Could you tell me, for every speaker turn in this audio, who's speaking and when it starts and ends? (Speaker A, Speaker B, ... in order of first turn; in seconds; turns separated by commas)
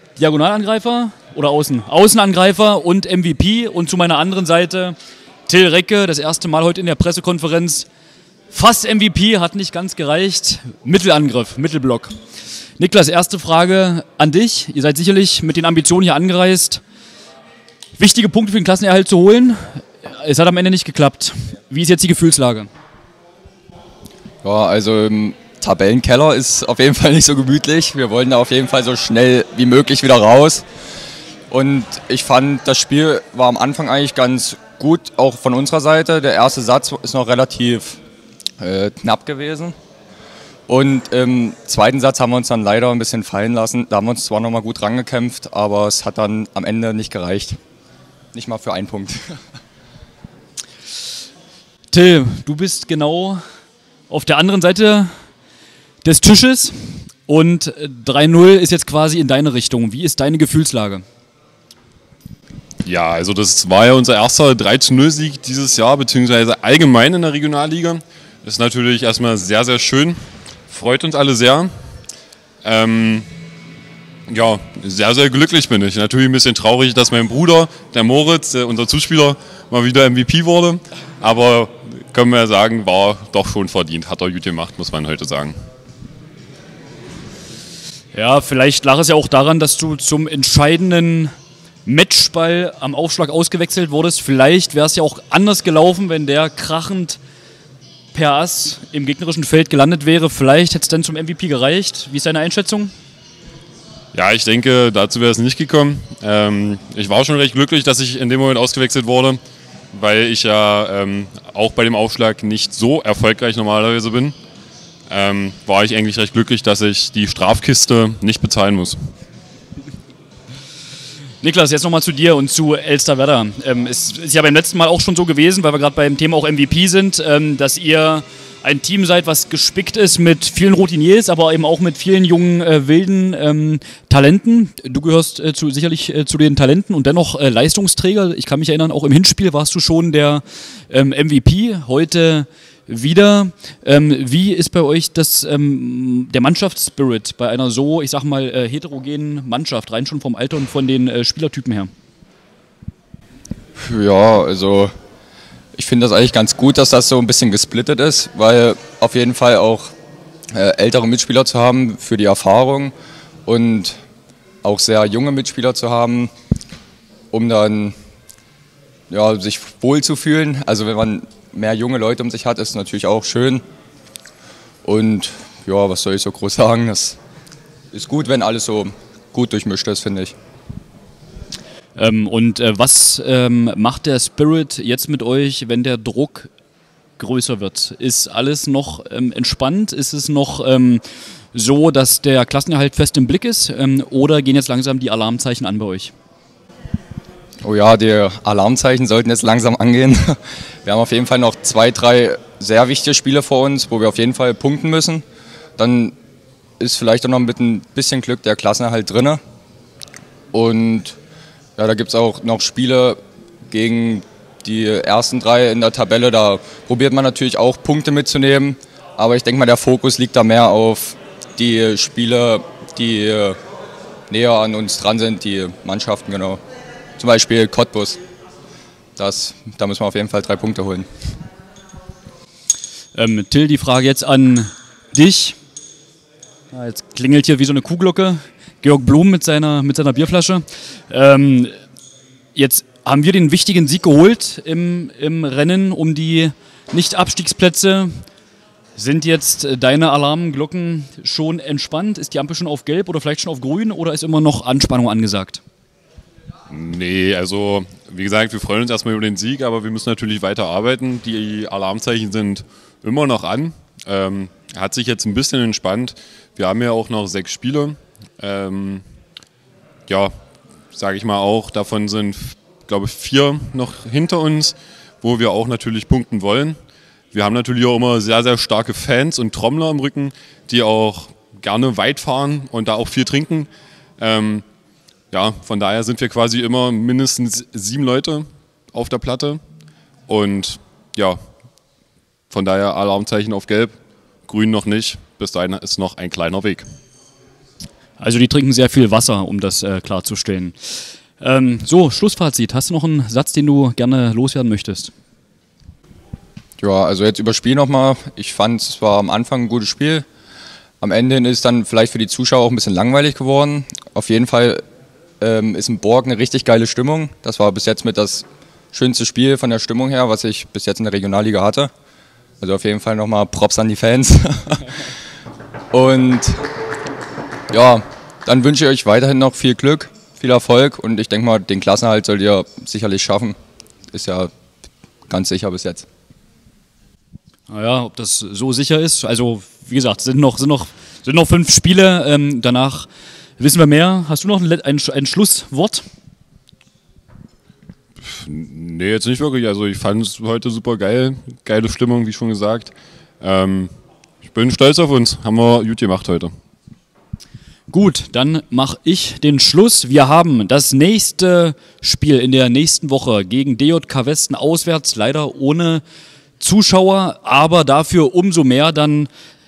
Speaker A: 0.2-5.0, Speaker A: 5.5-7.9, Speaker A: 8.5-12.1, Speaker A: 12.8-16.8, Speaker A: 18.0-22.7, Speaker B: 24.4-30.7, Speaker B: 31.5-38.0, Speaker B: 38.6-39.8, Speaker B: 40.7-47.6, Speaker B: 48.3-49.4, Speaker A: 51.9-53.4, Speaker A: 54.1-55.1, Speaker A: 56.0-61.0, Speaker C: 62.8-71.7, Speaker C: 72.6-73.3, Speaker C: 74.3-85.6, Speaker A: 88.1-91.3, Speaker A: 91.9-97.2, Speaker A: 98.1-102.9, Speaker C: 104.1-109.4, Speaker C: 109.9-114.3, Speaker C: 115.1-119.0, Speaker A: 121.4-151.9, Speaker B: 153.8-154.9, Speaker B: 155.8-159.8, Speaker B: 160.5-162.9, Speaker B: 163.4-164.0, Speaker B: 164.6-166.3, Speaker B: 167.3-167.9, Speaker B: 169.1-173.6, Speaker B: 174.8-177.2, Speaker B: 177.9-180.3, Speaker A: 181.9-186.5, Speaker A: 187.2-196.1, Speaker B: 197.6-205.2, Speaker B: 205.8-206.1, Speaker B: 206.8-209.4, Speaker B: 210.5-211.2, Speaker B: 211.8-213.2, Speaker B: 213.7-223.6, Speaker B: 224.3-226.6, Speaker B: 227.2-228.2, Speaker B: 229.2-231.1, Speaker A: 233.1-235.6, Speaker A: 236.7-241.8, Speaker A: 242.6-248.1, Speaker A: 249.0-255.6, Speaker C: 256.7-269.0, Speaker C: 270.1-270.3, Speaker C: 270.9-276.8, Speaker C: 277.3-284.6, Speaker C: 285.3-289.6, Speaker C: 290.3-291.4, Speaker C: 292.5-293.9, Speaker C: 294.5-296.9, Speaker A: 298.2-305.1, Speaker B: 306.8-310.2, Speaker B: 311.0-314.8, Speaker B: 315.4-321.9, Speaker B: 322.6-324.9, Speaker B: 325.9-326.6, Speaker B: 327.7-333.6, Speaker B: 334.1-334.5, Speaker B: 335.3-336.1, Speaker A: 337.7-346.0, Speaker C: 348.2-356.5, Speaker A: 357.9-366.0, Speaker A: 366.6-369.3